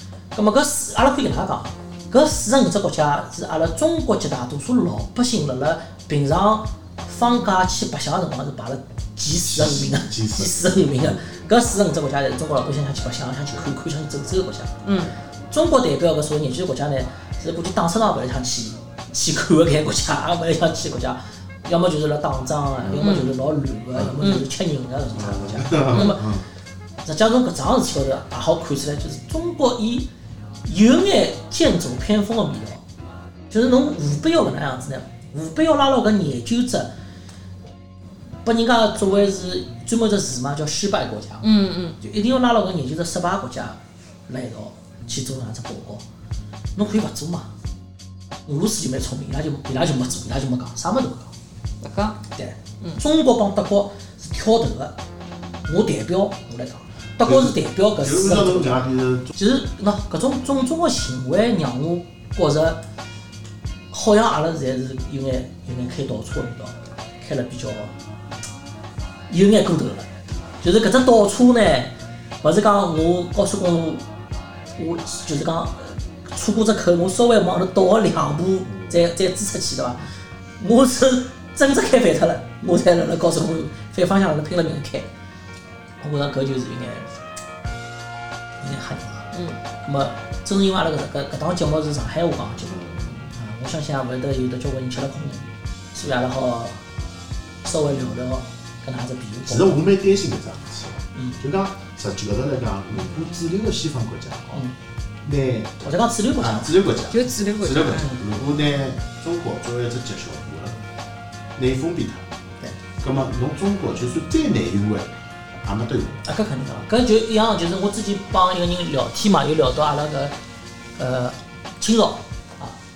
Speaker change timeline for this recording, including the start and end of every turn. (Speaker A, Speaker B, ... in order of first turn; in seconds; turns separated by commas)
Speaker A: 0.3-14.8, Speaker B: 9.4-11.5, Speaker C: 14.8-15.1, Speaker A: 15.5-26.3, Speaker B: 22.8-23.1, Speaker C: 22.9-23.3, Speaker C: 24.2-24.5, Speaker B: 25.1-26.4, Speaker C: 25.9-26.2, Speaker A: 27.0-30.1, Speaker A: 30.6-32.8, Speaker A: 33.5-36.9, Speaker A: 38.4-41.5, Speaker C: 41.4-42.0, Speaker A: 42.0-46.0, Speaker A: 46.8-47.5, Speaker A: 48.5-51.3, Speaker C: 51.8-52.2, Speaker A: 52.3-54.9, Speaker A: 55.6-62.8, Speaker B: 57.2-59.3, Speaker A: 63.9-67.9, Speaker A: 69.3-70.1, Speaker A: 70.6-74.0, Speaker A: 74.8-80.0, Speaker B: 78.7-79.0, Speaker A: 80.6-85.1, Speaker A: 86.0-87.1, Speaker A: 88.6-92.8, Speaker C: 89.3-89.6, Speaker B: 92.7-93.3, Speaker A: 93.3-96.8, Speaker A: 97.6-99.8, Speaker B: 99.5-104.6, Speaker A: 101.1-101.4, Speaker B: 105.2-110.8, Speaker A: 105.8-106.8, Speaker C: 107.1-108.1, Speaker B: 111.5-112.3, Speaker B: 113.0-115.1, Speaker B: 115.6-116.2, Speaker A: 116.2-120.3, Speaker A: 121.0-122.8